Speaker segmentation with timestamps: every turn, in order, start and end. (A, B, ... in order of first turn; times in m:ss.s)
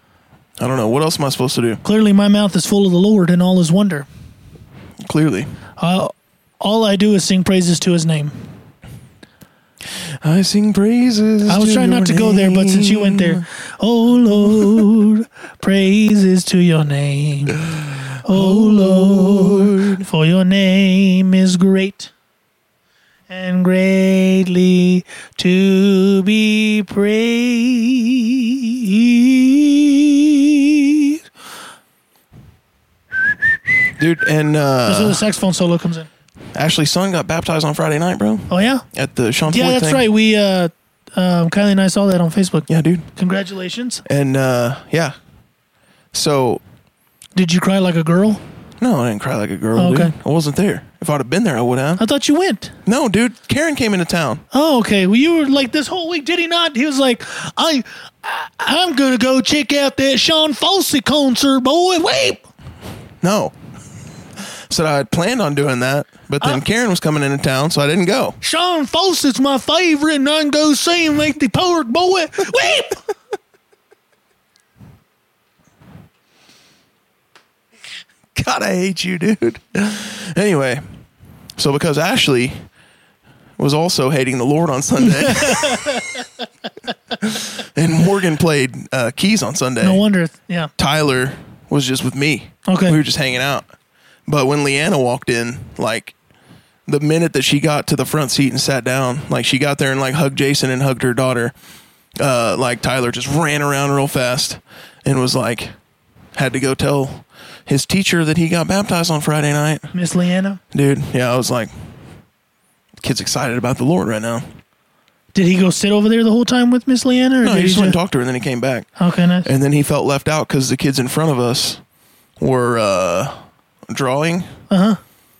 0:00.6-0:01.8 A
0:01.8-0:04.1 B
0:05.0-0:05.5 A
0:05.8-0:08.3 B
0:09.9-0:13.4 A
0:11.5-0:17.6 B
0:14.5-0:14.8 A
0:17.7-0:20.0 A
0:18.2-0:22.1 B
0:23.3-0:31.2 B
0:34.0-0:35.2 A
0:34.8-0:36.1 B
0:36.5-0:40.0 A
0:38.5-0:38.8 B
0:39.4-0:44.0 B
0:42.7-0:43.0 A
0:44.0-0:45.1 A
0:46.1-0:46.6 A
0:47.4-0:48.4 B
0:48.8-0:52.0 A
0:49.7-0:50.1 B
0:52.0-0:52.7 B
0:52.8-0:54.4 A
0:54.5-1:02.5 B
1:03.2-1:03.5 A
1:04.4-1:08.4 A
1:08.4-1:13.0 B
1:18.3-1:20.8 A
1:21.6-1:22.6 A
1:23.6-1:26.0 A
1:25.0-1:26.3 B
1:27.2-1:30.0 A
1:29.8-1:30.7 B
1:30.8-1:33.7 A
1:32.7-1:33.0 B
1:34.3-1:36.1 A
1:36.9-1:41.5 A
1:42.2-1:45.7 A
1:46.3-1:49.9 A
1:49.9-1:50.6 B
1:50.7-1:51.7 A
1:53.0-1:54.4 A
1:55.3-1:58.0 B
1:57.4-1:58.9 A
1:59.0-1:59.5 B
1:59.4-2:01.8 A
2:02.4-2:04.5 A
2:04.7-2:05.0 B